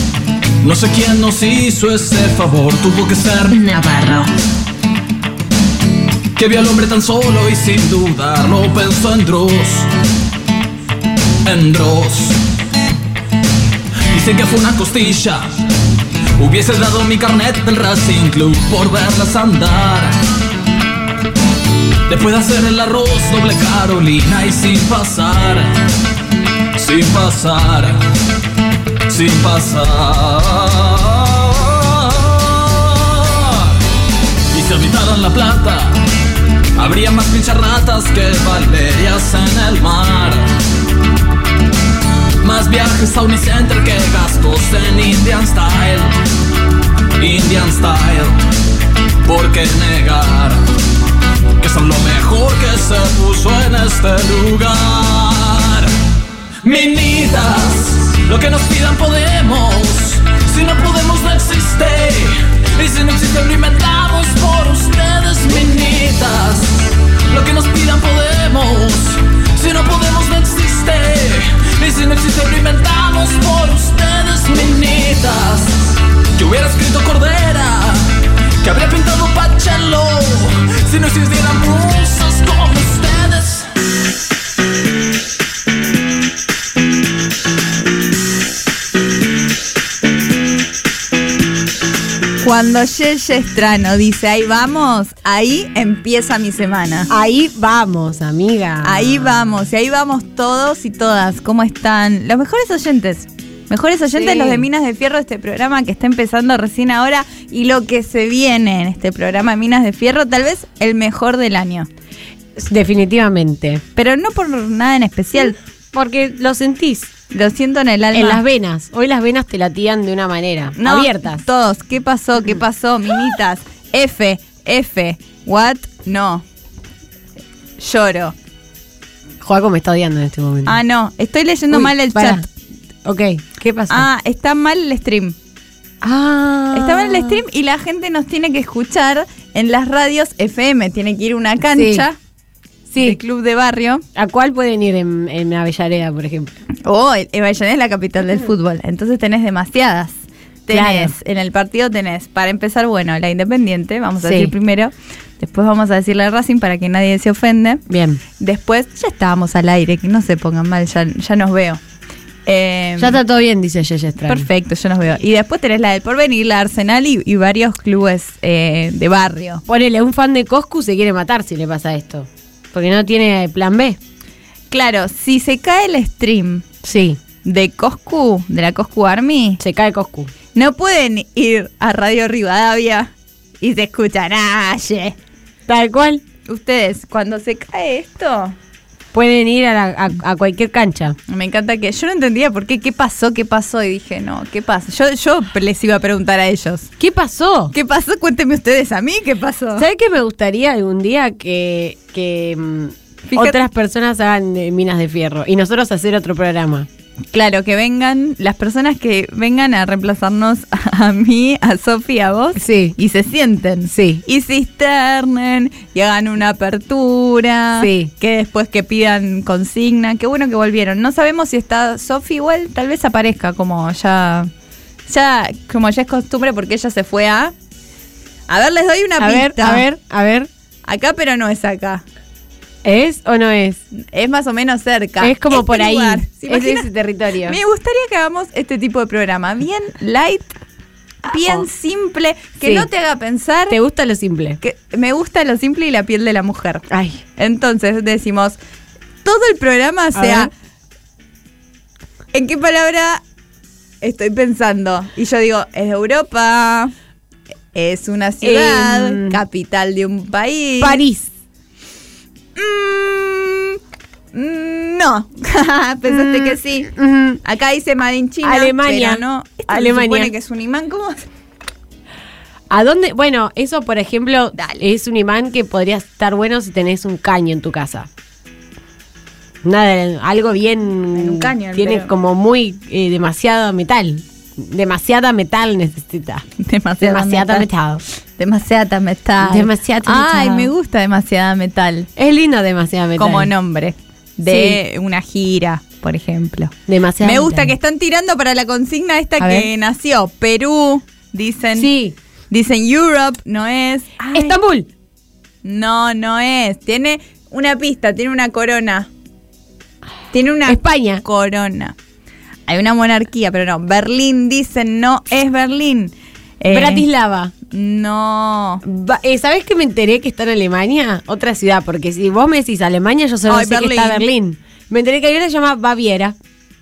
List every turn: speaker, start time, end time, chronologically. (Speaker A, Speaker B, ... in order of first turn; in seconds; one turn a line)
Speaker A: 0.6-3.6
Speaker B: 3.5-4.3
Speaker A: 6.3-9.9
Speaker A: 11.4-12.4
Speaker A: 14.1-15.6
Speaker A: 16.4-20.1
Speaker A: 22.1-25.7
Speaker A: 26.8-28.0
Speaker A: 29.1-33.8
Speaker A: 34.5-36.0
Speaker A: 36.8-40.5
Speaker A: 42.4-46.2
Speaker A: 47.2-48.3
Speaker A: 49.2-50.6
Speaker A: 51.6-55.9
Speaker A: 56.6-83.7
Speaker C: 92.4-97.1
Speaker B: 97.1-99.3
Speaker C: 98.8-111.9
Speaker B: 104.1-104.7
Speaker B: 112.5-113.8
Speaker C: 113.9-115.6
Speaker B: 115.9-117.1
Speaker C: 117.3-118.4
Speaker B: 118.1-121.4
Speaker C: 120.8-126.4
Speaker C: 127.8-128.3
Speaker B: 129.4-130.8
Speaker C: 130.7-132.5
Speaker B: 131.7-132.4
Speaker B: 133.0-134.1
Speaker C: 133.9-135.3
Speaker B: 136.0-137.4
Speaker C: 136.7-142.2
Speaker B: 141.7-142.1
Speaker B: 142.9-143.2
Speaker C: 143.0-144.0
Speaker B: 144.1-146.5
Speaker C: 146.8-150.1
Speaker C: 150.7-157.8
Speaker B: 150.7-151.1
Speaker B: 154.2-154.5
Speaker B: 157.9-158.2
Speaker C: 158.4-161.8
Speaker C: 162.4-163.2
Speaker B: 163.0-164.5
Speaker C: 164.2-169.6
Speaker B: 169.7-174.0
Speaker C: 174.7-176.7
Speaker B: 176.8-177.2
Speaker C: 177.4-179.6
Speaker B: 179.6-180.3
Speaker C: 180.5-185.1
Speaker B: 185.7-186.2
Speaker C: 186.5-188.5
Speaker B: 189.1-191.2
Speaker C: 191.3-196.9
Speaker B: 197.0-197.7
Speaker C: 197.7-199.9
Speaker B: 199.8-206.9
Speaker C: 203.2-203.6
Speaker C: 207.3-224.5
Speaker B: 212.6-212.9
Speaker B: 213.9-214.2
Speaker B: 217.8-218.1
Speaker C: 225.1-227.5
Speaker C: 228.5-229.8
Speaker B: 229.2-230.5
Speaker C: 230.8-232.0
Speaker B: 232.8-233.8
Speaker C: 233.9-236.9
Speaker B: 235.2-237.6
Speaker C: 237.4-240.5
Speaker C: 241.2-243.8
Speaker B: 241.3-241.7
Speaker B: 242.6-242.9
Speaker B: 243.7-244.6
Speaker C: 244.6-246.8
Speaker B: 246.9-247.2
Speaker C: 247.4-248.6
Speaker C: 249.2-250.5
Speaker B: 250.1-250.5
Speaker C: 252.3-253.2
Speaker C: 254.0-256.9
Speaker C: 257.7-261.0
Speaker B: 258.4-259.4
Speaker B: 260.8-261.3
Speaker C: 262.6-263.8
Speaker C: 264.3-266.9
Speaker B: 266.1-267.4
Speaker C: 267.4-271.2
Speaker B: 268.4-270.3
Speaker B: 272.7-278.1
Speaker C: 274.5-274.8
Speaker B: 279.6-286.4
Speaker C: 281.1-282.1
Speaker C: 286.6-287.7
Speaker B: 287.0-288.0
Speaker C: 288.4-292.1
Speaker B: 289.4-290.7
Speaker B: 292.1-293.5
Speaker C: 293.2-301.9
Speaker B: 294.4-294.8
Speaker B: 296.9-297.7
Speaker B: 299.4-299.7
Speaker B: 301.8-302.1
Speaker C: 302.5-304.6
Speaker B: 304.2-304.9
Speaker C: 305.6-309.1
Speaker C: 310.3-311.9
Speaker B: 310.7-311.2
Speaker C: 312.7-317.1
Speaker B: 316.7-317.5
Speaker C: 317.7-318.8
Speaker B: 318.8-326.4
Speaker C: 323.5-324.3